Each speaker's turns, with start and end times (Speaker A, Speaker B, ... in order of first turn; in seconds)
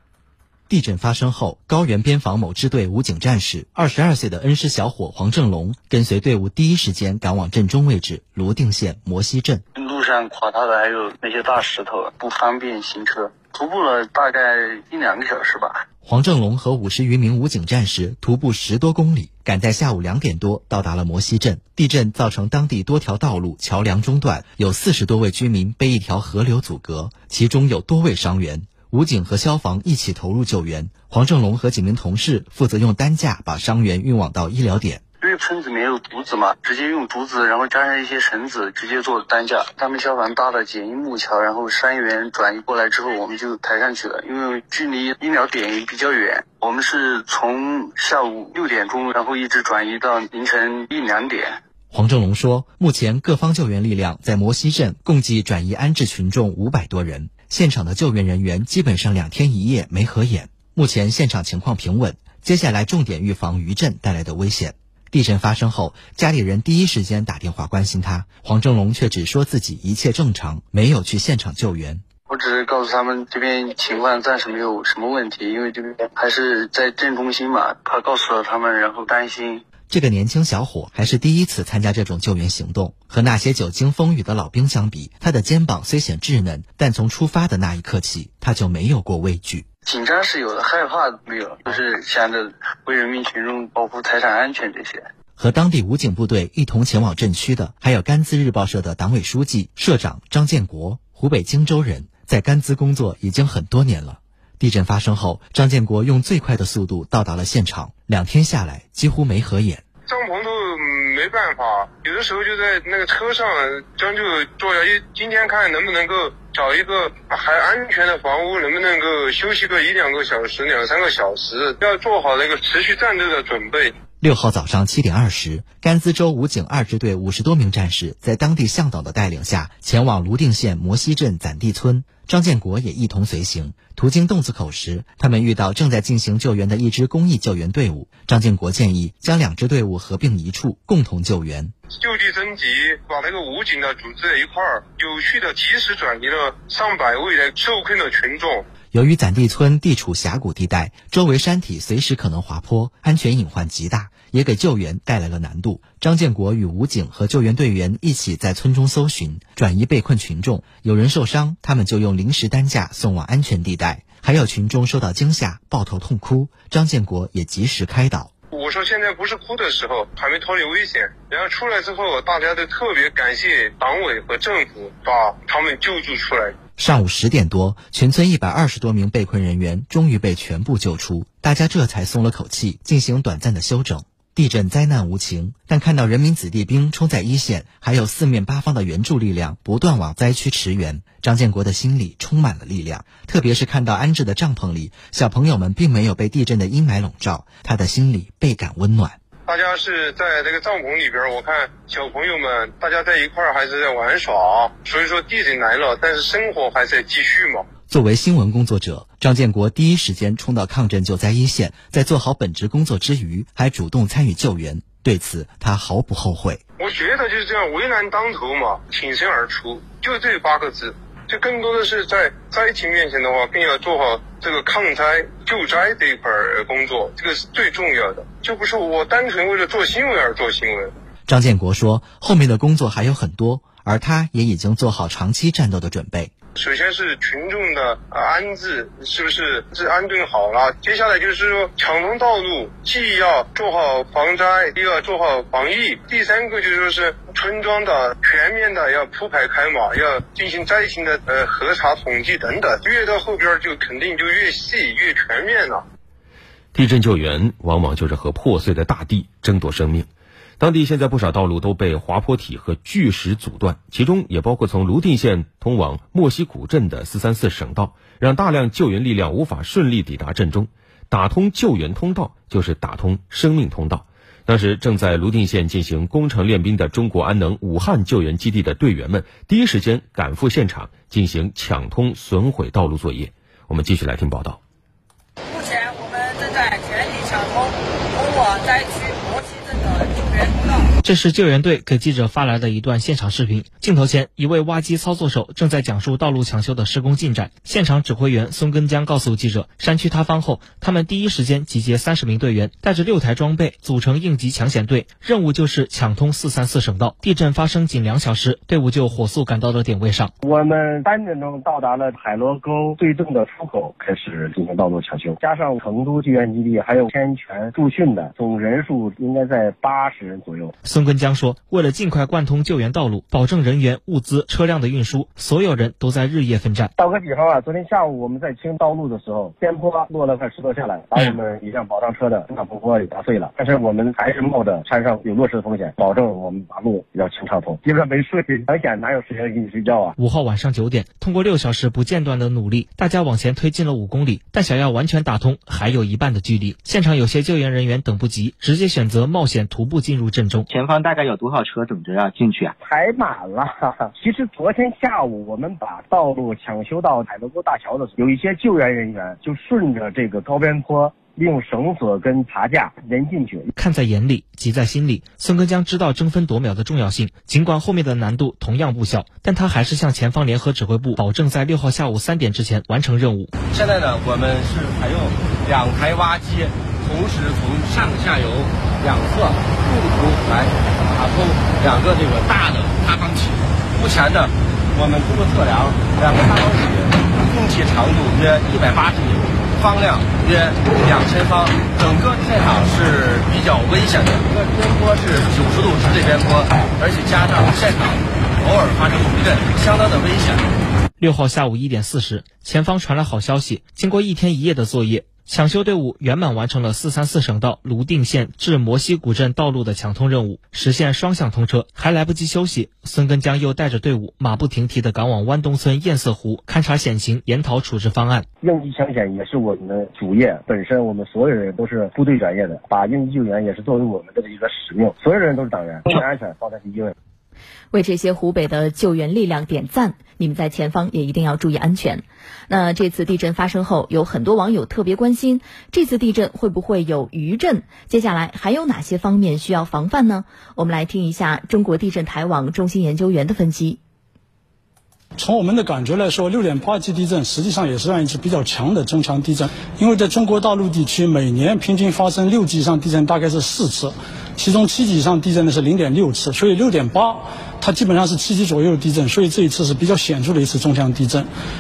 Speaker A: 0.7-9.6, 16.0-35.0, 51.9-72.0, 79.9-89.7, 95.4-109.8, 124.2-141.7, 148.9-168.3, 176.8-199.2, 207.9-216.6, 231.3-236.3
Speaker B: 9.7-15.8, 35.2-51.6, 72.3-79.6, 89.8-95.1
Speaker C: 110.1-123.9, 141.9-148.7, 168.5-176.5, 199.5-207.7, 216.8-230.9, 236.6-255.8
Speaker D: 256.7-260.1, 260.6-284.6
Speaker E: 285.5-290.9
Speaker F: 291.0-310.3, 320.8-326.9, 340.2-350.7, 363.8-373.5, 401.2-418.5
Speaker G: 310.4-320.7, 327.0-340.1, 352.9-363.7, 418.6-427.1
Speaker H: 350.7-352.8
Speaker I: 373.7-400.7
Speaker J: 427.9-444.0
Speaker K: 445.4-461.5